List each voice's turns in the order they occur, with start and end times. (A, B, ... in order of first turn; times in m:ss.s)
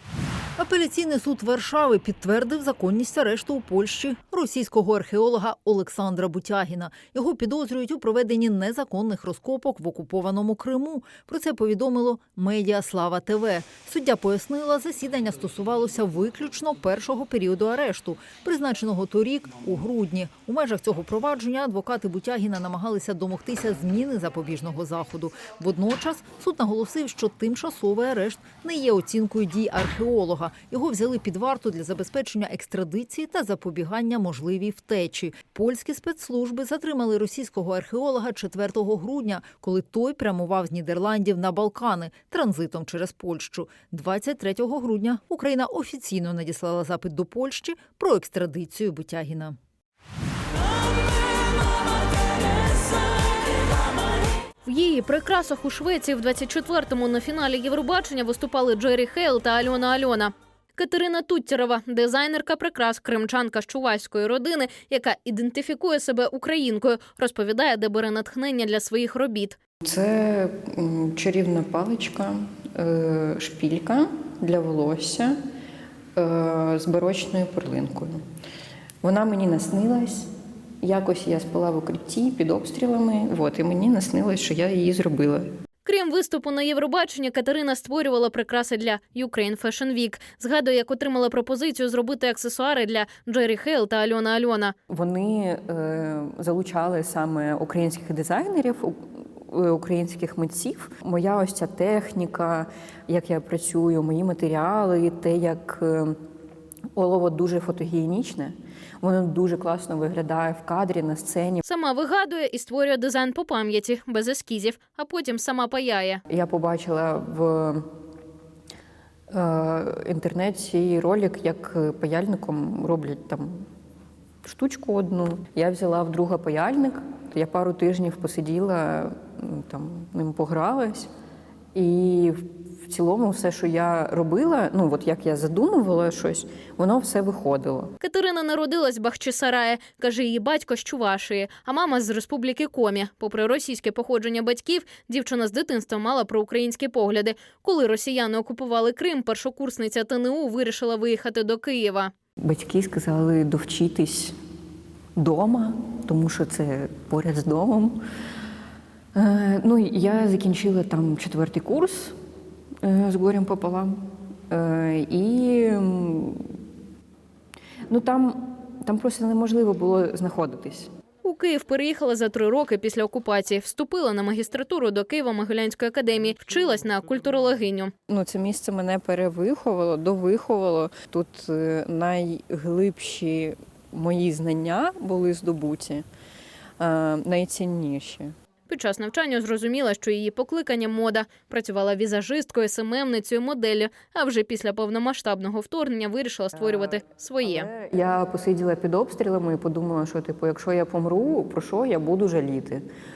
0:00.6-0:49.6 A
0:54.6-1:09.6 B
1:09.8-1:15.4 C
1:16.2-1:18.2 C
1:19.0-1:20.3 C
1:20.8-1:25.5 C
1:25.8-1:34.7 B
1:34.9-1:46.2 C
1:46.9-1:51.6 C
1:51.7-1:56.2 B
1:56.3-1:57.9 C
1:59.3-2:03.7 C
2:04.4-2:11.1 C
2:11.8-2:17.9 C
2:18.0-2:32.1 B
2:32.4-2:34.4 C
2:35.2-2:38.0 C
2:39.2-2:42.2 C
2:42.8-2:46.5 C
2:47.9-2:50.9 C
2:51.2-2:57.9 B
2:58.1-3:06.1 C
3:06.8-3:08.3 C
3:08.7-3:17.7 B
3:16.5-3:22.9 C